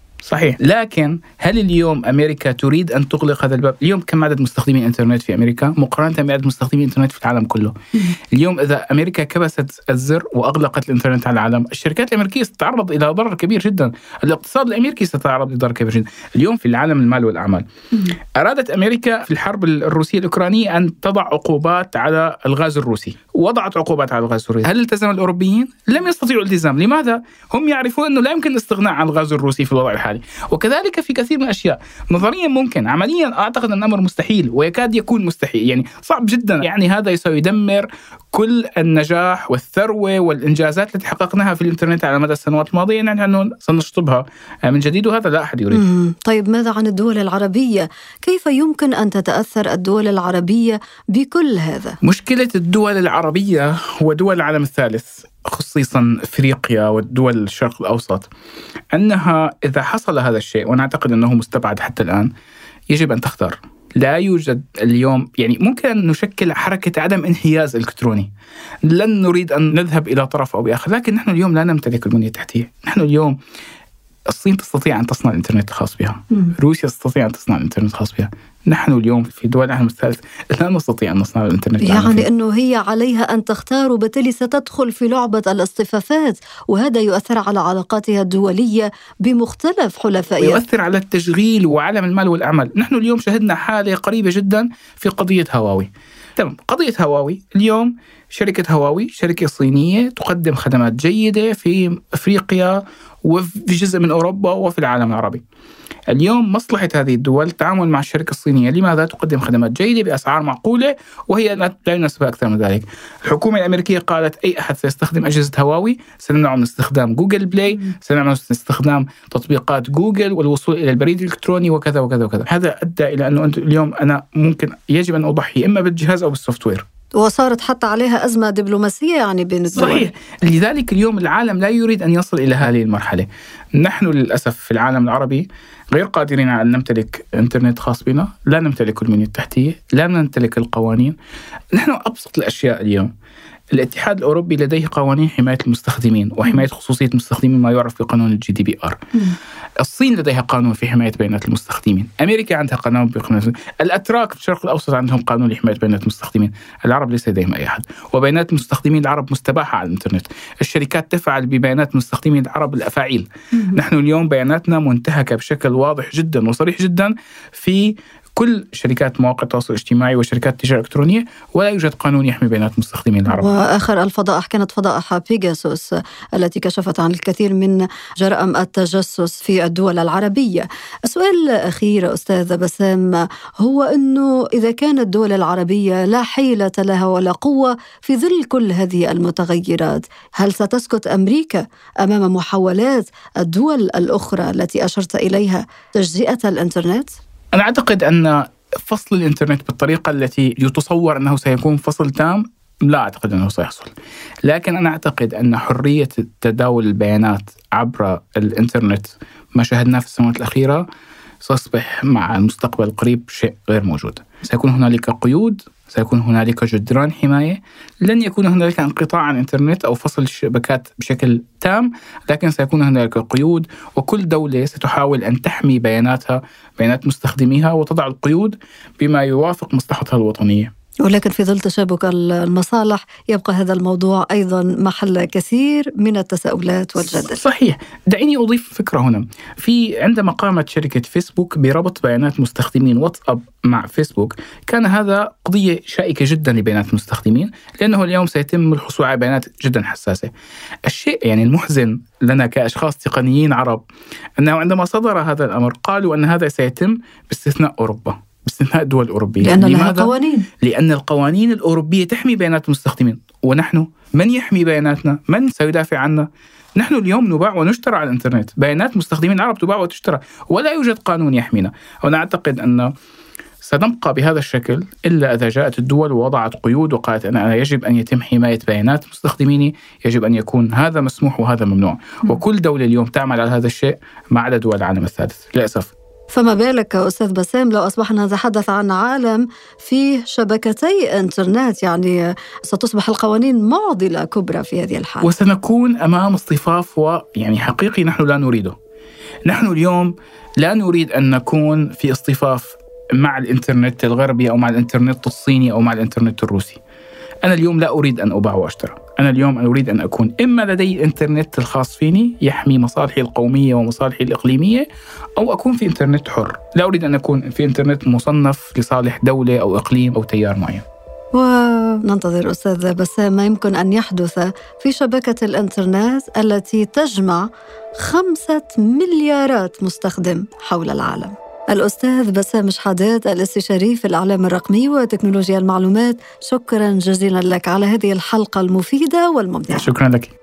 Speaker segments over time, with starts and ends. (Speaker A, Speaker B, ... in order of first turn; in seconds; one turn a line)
Speaker A: 0.2-17.6
Speaker A: 18.4-45.8
Speaker B: 45.7-52.0
Speaker A: 52.0-58.3
Speaker A: 58.9-62.3
Speaker A: 62.9-68.3
Speaker A: 68.8-73.4
Speaker A: 74.3-82.3
Speaker B: 81.8-90.6
Speaker A: 90.4-105.4
Speaker A: 106.1-126.8
Speaker B: 127.2-130.1
Speaker A: 129.8-133.3
Speaker A: 133.8-141.2
Speaker A: 141.7-143.1
Speaker A: 143.7-149.0
Speaker A: 149.8-173.6
Speaker B: 173.3-197.2
Speaker A: 197.5-203.9
Speaker A: 204.4-210.8
Speaker A: 211.4-230.7
Speaker B: 231.0-237.4
Speaker A: 237.0-250.3
Speaker A: 250.9-253.8
Speaker A: 254.4-272.9
Speaker B: 259.4-260.5
Speaker A: 273.6-285.9
Speaker B: 286.3-295.3
Speaker A: 295.2-298.8
Speaker A: 299.5-306.8
Speaker A: 307.4-314.9
Speaker A: 315.4-320.8
Speaker B: 321.3-327.5
Speaker B: 328.0-339.9
Speaker A: 339.7-340.3